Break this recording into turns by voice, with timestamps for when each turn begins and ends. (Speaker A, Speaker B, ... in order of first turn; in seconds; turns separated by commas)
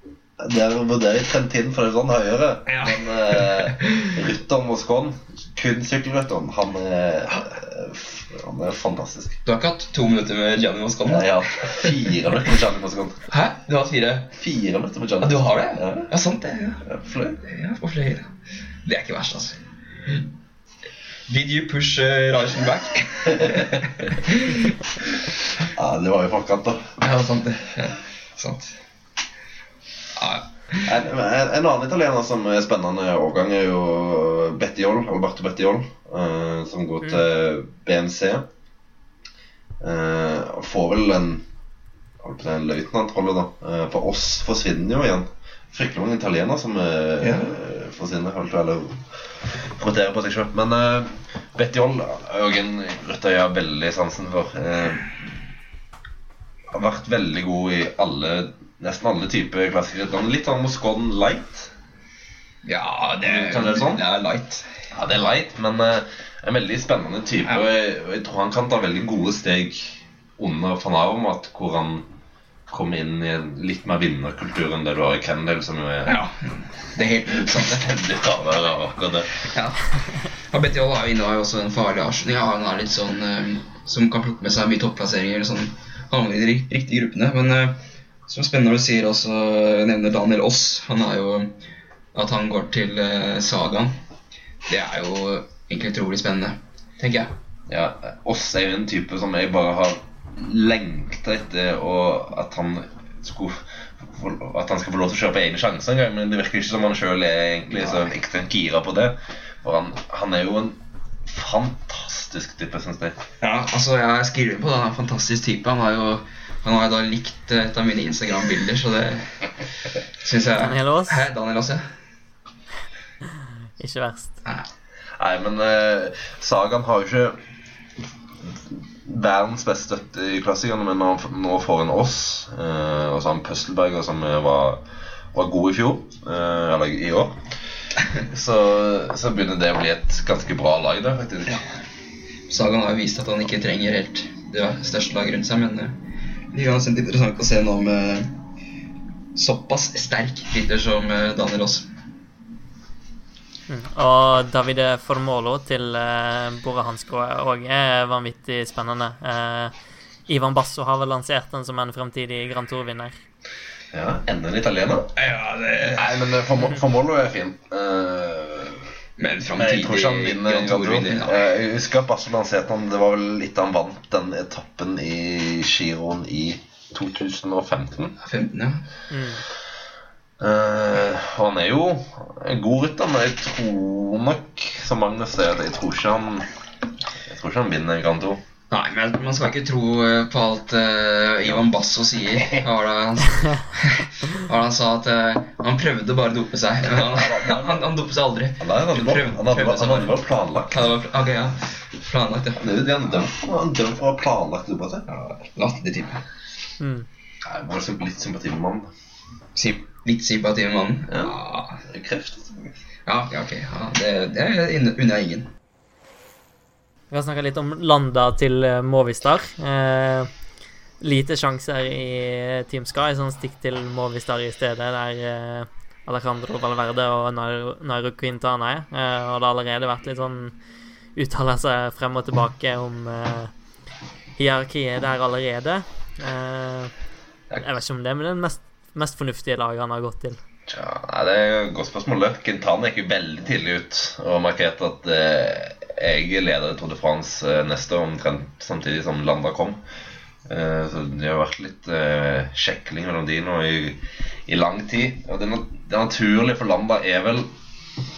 Speaker A: 0.4-9.4, Speaker B: 2.7-4.2, Speaker B: 9.4-12.2, Speaker A: 11.1-13.2, Speaker B: 13.3-14.3, Speaker A: 14.4-16.1, Speaker B: 15.2-16.8, Speaker A: 16.8-17.4, Speaker B: 17.4-18.3, Speaker B: 18.8-20.2, Speaker B: 21.3-25.2, Speaker A: 23.3-23.8, Speaker A: 25.6-27.0, Speaker B: 27.0-28.7, Speaker B: 30.1-30.9, Speaker A: 30.8-38.5, Speaker A: 39.8-41.4, Speaker A: 42.2-55.3, Speaker B: 47.2-47.5, Speaker A: 56.7-61.7, Speaker B: 62.6-64.7, Speaker A: 63.2-64.0, Speaker A: 64.9-72.0, Speaker A: 72.7-76.2, Speaker B: 76.0-77.9, Speaker A: 77.3-79.4, Speaker B: 79.5-79.8, Speaker B: 80.4-91.5, Speaker B: 92.1-93.9, Speaker B: 94.7-97.3, Speaker A: 97.7-113.2, Speaker B: 107.8-108.1, Speaker B: 113.4-119.4, Speaker B: 120.2-121.9, Speaker C: 120.6-121.2, Speaker C: 123.8-124.4, Speaker A: 125.2-127.4, Speaker A: 128.5-137.5, Speaker A: 138.2-141.6, Speaker B: 142.5-145.9, Speaker B: 146.5-148.4, Speaker B: 149.3-151.9, Speaker C: 153.7-159.7, Speaker C: 160.3-163.2, Speaker A: 163.9-165.1, Speaker B: 165.2-166.3, Speaker A: 165.9-168.9, Speaker B: 169.2-171.4, Speaker A: 169.6-178.1, Speaker B: 178.2-178.8, Speaker C: 179.1-179.4, Speaker A: 180.4-186.5, Speaker A: 187.2-188.4, Speaker B: 188.7-200.2, Speaker A: 192.4-192.6, Speaker A: 196.8-197.9, Speaker A: 198.6-200.9, Speaker B: 200.7-203.3, Speaker A: 202.6-205.1, Speaker B: 205.1-206.2, Speaker C: 206.8-207.1, Speaker A: 207.4-208.9, Speaker B: 209.6-211.8, Speaker A: 211.1-212.8, Speaker B: 213.1-215.5, Speaker C: 217.1-220.3, Speaker C: 221.0-230.6, Speaker C: 231.2-233.5, Speaker C: 234.4-236.9, Speaker C: 237.6-240.4, Speaker A: 240.7-249.8, Speaker A: 250.5-257.5